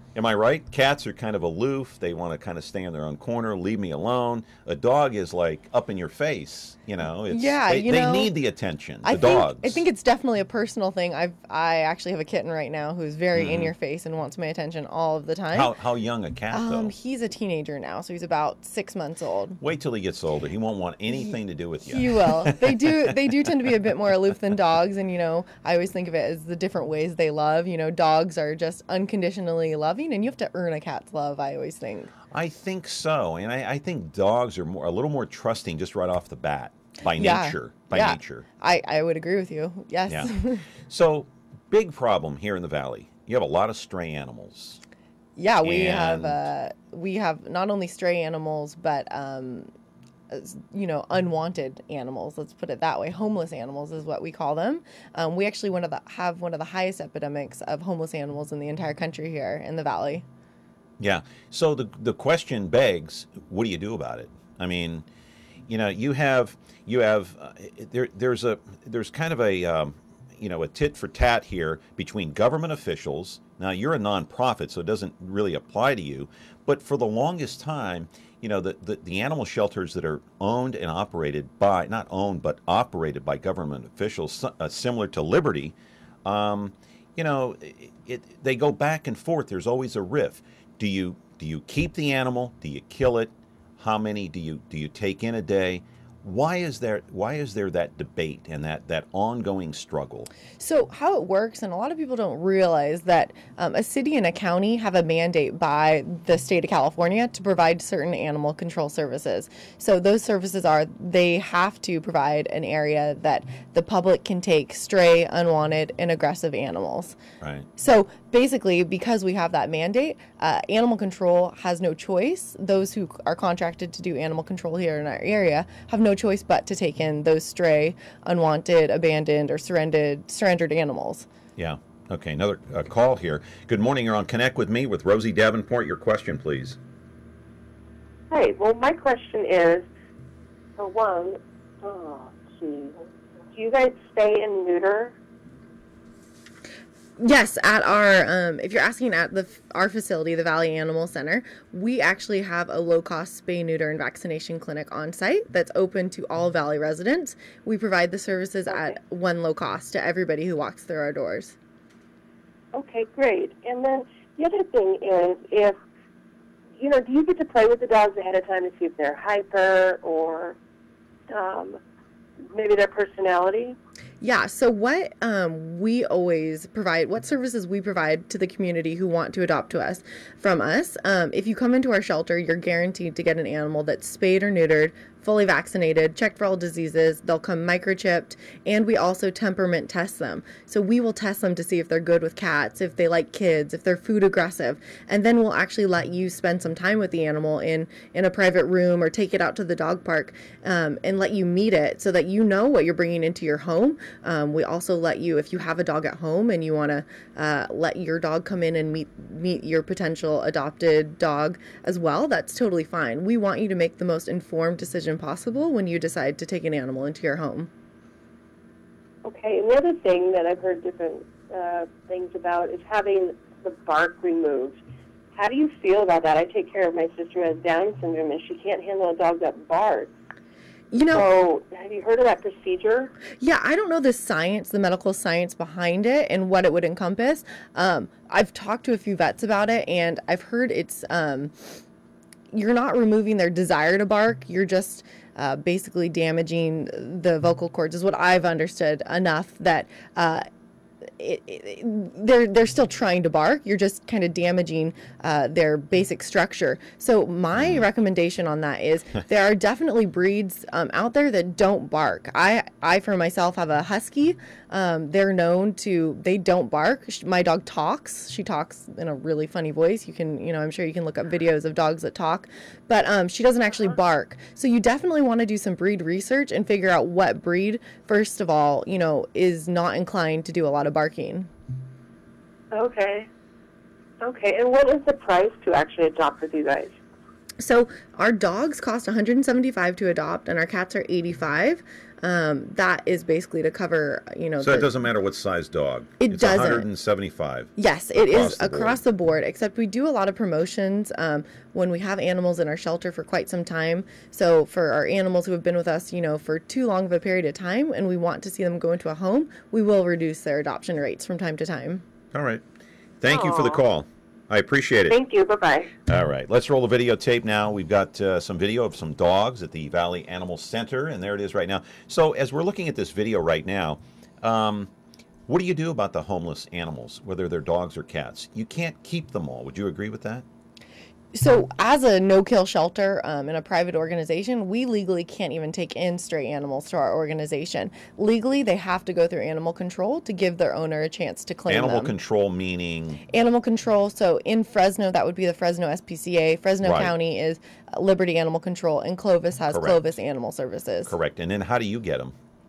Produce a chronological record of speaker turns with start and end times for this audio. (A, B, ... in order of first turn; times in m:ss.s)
0:00.1-0:09.8 A
0:07.3-0:08.3 B
0:09.0-0:15.7 B
0:13.3-0:13.7 A
0:15.5-0:16.9 A
0:16.5-0:19.6 B
0:19.6-0:23.1 A
0:21.8-0:32.1 B
0:32.3-0:38.4 A
0:37.1-0:40.6 B
0:40.8-0:44.8 A
0:45.4-0:49.7 B
0:45.6-0:46.4 A
0:50.3-1:00.2 B
1:01.0-1:05.0 A
1:05.7-1:40.3 A
1:40.6-1:57.2 B
1:57.4-1:57.7 A
1:57.8-2:11.3 B
2:11.6-2:16.8 A
2:18.3-2:19.8 C
2:20.8-2:25.1 C
2:27.2-2:41.5 B
2:42.7-2:45.8 C
2:46.8-2:50.6 C
2:51.3-2:51.8 C
2:52.5-2:53.8 C
2:54.2-3:37.7 B
3:39.2-3:44.8 C
3:45.3-3:50.1 C
3:50.9-3:51.2 B
3:51.1-3:53.1 C
3:53.4-4:01.7 B
4:02.5-4:10.4 B
4:11.2-4:41.5 B
4:17.6-4:17.8 A
4:42.7-4:43.3 C
4:44.2-4:46.9 C
4:47.6-4:54.9 B
4:54.6-4:59.0 A
4:56.2-4:56.8 B
4:57.8-5:12.0 B
5:12.3-5:12.6 A
5:13.2-5:15.2 A
5:13.3-5:13.8 C
5:15.1-5:15.9 C
5:16.1-5:24.9 A
5:25.5-5:30.4 A
5:31.3-5:42.1 B
5:41.7-5:43.2 A
5:43.3-5:51.1 B
5:46.8-5:47.1 A
5:49.7-5:50.1 A
5:51.0-5:52.3 A